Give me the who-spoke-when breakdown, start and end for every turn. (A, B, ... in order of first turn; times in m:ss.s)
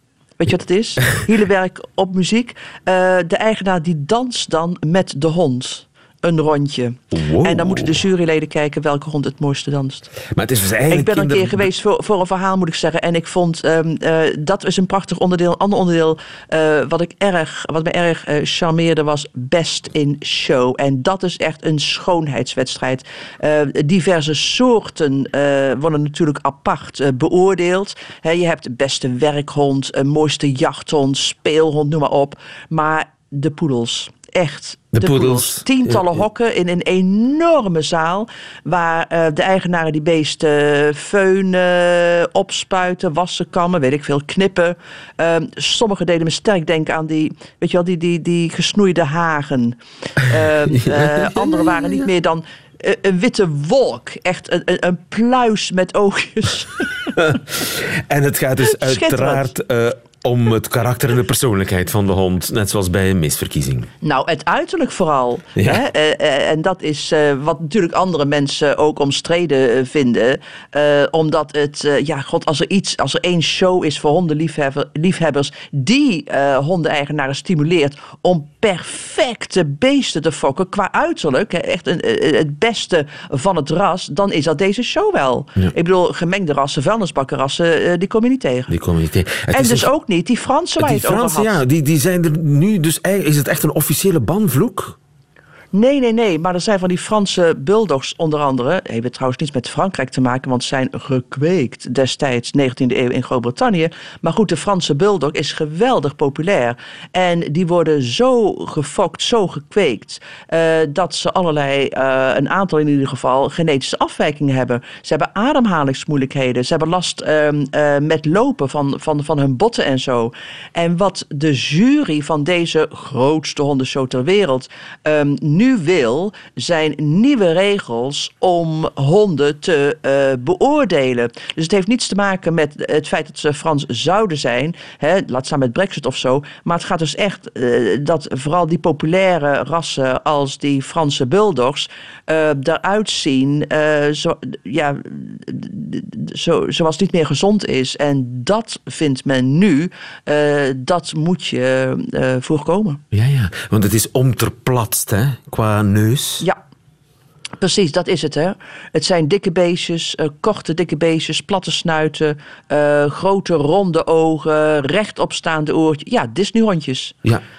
0:00.4-0:10.1 A
0:07.1-0:08.0 B
0:10.3-0:11.7 B
0:10.9-0:57.0 A
0:34.9-0:36.2 B
0:50.7-0:51.6 B
0:57.2-1:03.9 B
0:58.6-0:59.5 A
1:04.0-1:28.7 A
1:05.6-1:05.8 B
1:28.7-1:29.9 B
1:29.5-1:31.6 A
1:30.8-1:35.0 B
1:35.7-2:33.0 A
2:33.1-2:36.4 B
2:37.6-2:47.2 A